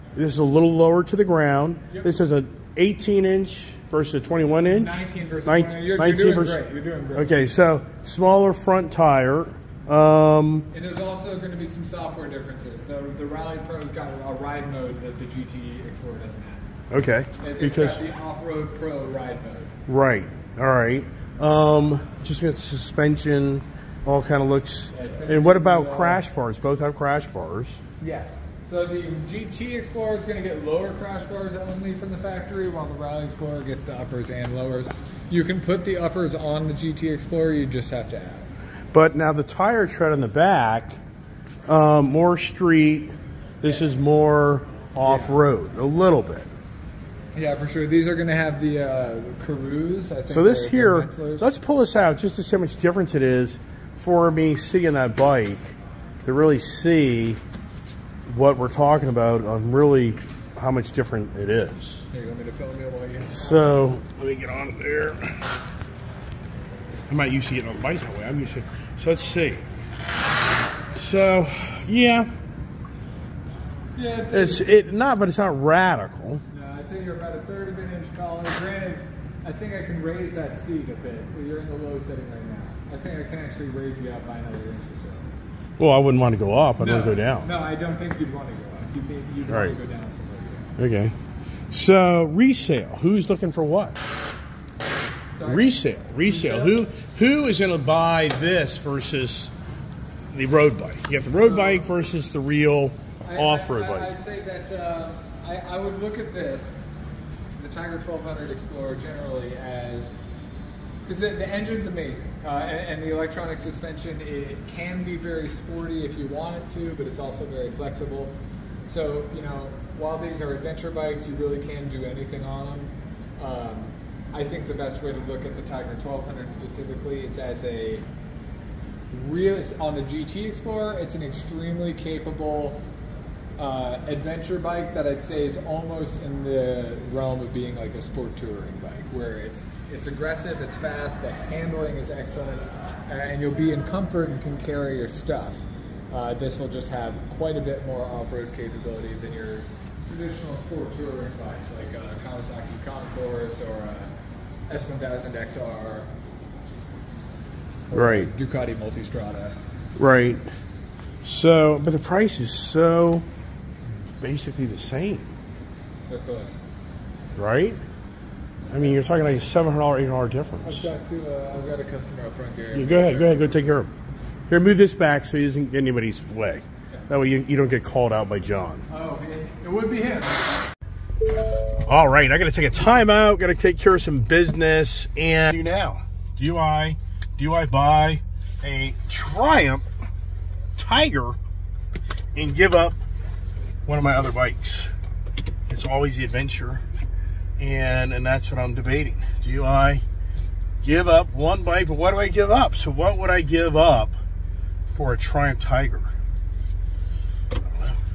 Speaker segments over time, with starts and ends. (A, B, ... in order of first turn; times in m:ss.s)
0:00.2-0:06.6 A
0:04.6-0:07.5 B
0:07.1-0:10.7 A
0:10.7-0:16.6 B
0:16.9-0:18.0 A
0:17.4-0:19.7 B
0:19.9-0:27.8 A
0:24.9-0:26.2 B
0:28.0-0:38.5 B
0:38.9-0:41.0 A
0:41.7-0:46.5 A
0:45.0-0:45.4 B
0:47.3-0:51.5 B
0:50.3-0:57.4 A
0:58.3-1:02.0 A
1:02.1-1:04.0 B
1:03.2-1:05.4 A
1:07.1-1:09.6 A
1:10.9-1:12.3 A
1:14.0-1:14.8 B
1:14.3-1:16.4 A
1:16.5-1:25.2 B
1:25.8-1:27.5 A
1:26.8-1:30.7 B
1:29.5-1:29.8 A
1:30.8-1:31.1 A
1:31.7-1:34.0 A
1:35.4-1:36.8 B
1:35.4-1:39.5 A
1:40.3-1:44.1 A
1:41.4-1:41.9 B
1:43.2-1:46.8 B
1:47.6-1:50.1 B
1:51.0-2:08.0 B
2:09.1-2:12.8 B
2:13.6-2:34.1 B
2:34.7-2:36.1 B
2:37.9-2:39.6 B
2:37.9-2:38.3 A
2:40.0-2:40.4 A
2:41.2-2:43.2 A
2:44.2-2:45.3 A
2:46.1-2:46.6 B
2:47.4-2:47.8 A
2:48.7-2:50.9 A
2:50.6-2:53.6 B
2:52.7-2:53.9 A
2:54.5-2:58.8 A
2:58.9-3:00.6 B
3:01.8-3:09.9 A
3:10.8-3:11.4 A
3:12.3-3:13.0 A
3:13.8-3:14.9 A
3:15.7-3:16.8 A
3:17.6-3:20.0 A
3:20.8-3:24.2 A
3:24.9-3:26.1 A
3:27.5-3:28.0 A